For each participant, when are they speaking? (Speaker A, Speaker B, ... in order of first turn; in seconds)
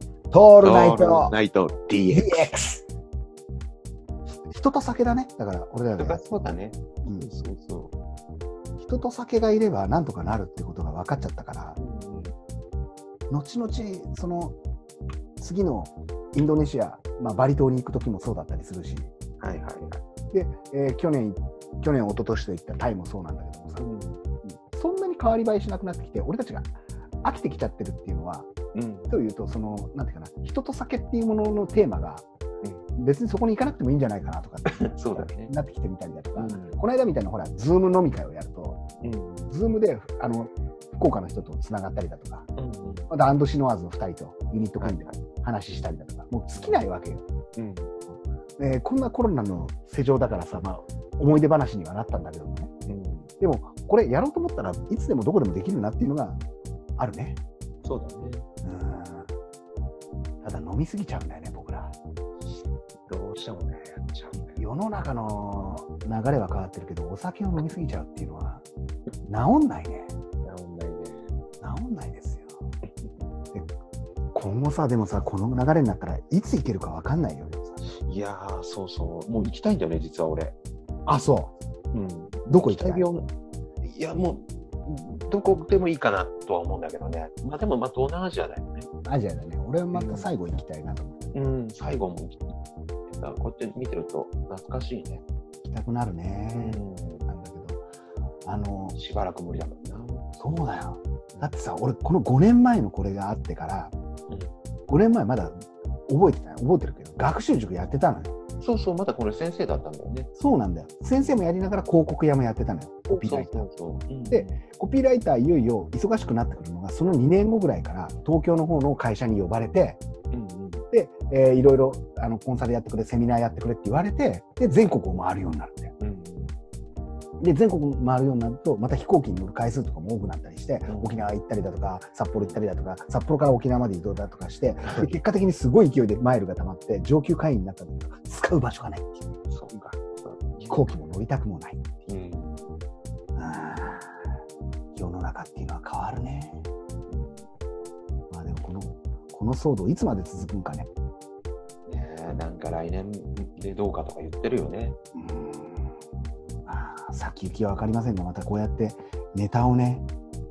Speaker A: 0.3-1.3, 2.1-2.8, 4.5-6.4, 7.0-7.3, 8.8-11.8, 13.3-14.6, 15.4-19.1, 20.3-23.9, 24.4-28.5, 29.1-32.2, 33.0-38.8, 39.5-42.5, 43.1-47.2, 48.6-52.7, 53.4-56.4, 57.0-57.4, 58.6-59.3, 60.4-61.9, 64.5-68.6, 69.2-70.1, 71.6-72.5, 74.3-77.9, 81.0-81.5, 82.5-83.1, 89.0-91.5, 95.6-97.8, 98.5-99.0, 100.4-103.9, 104.9-108.3, 110.3-113.7, 114.3-120.0, 120.9-125.9, 127.4-139.2, 140.7-141.8, 143.3-144.1, 144.9-146.7, 148.3-150.9, 155.1-155.9, 156.7-160.1
Speaker B: 0.6-2.5, 6.0-7.9, 11.8-12.3, 19.4-20.0, 23.8-24.2, 28.7-29.1, 34.7-35.5, 36.3-36.8, 39.0-39.5, 42.6-43.1, 44.8-45.2, 46.5-46.8, 47.5-47.9, 52.9-53.3, 57.8-58.5, 63.1-64.6, 70.4-71.3, 77.9-80.5, 81.9-83.3, 83.8-88.9, 89.9-90.3, 91.3-92.5, 93.1-95.2, 96.5-97.2, 98.9-100.4, 108.6-110.3, 111.2-111.4, 113.1-114.6, 120.3-120.8, 126.0-126.5, 130.9-131.2, 132.4-132.6, 139.5-141.0, 142.1-142.7, 147.1-147.4, 151.9-155.0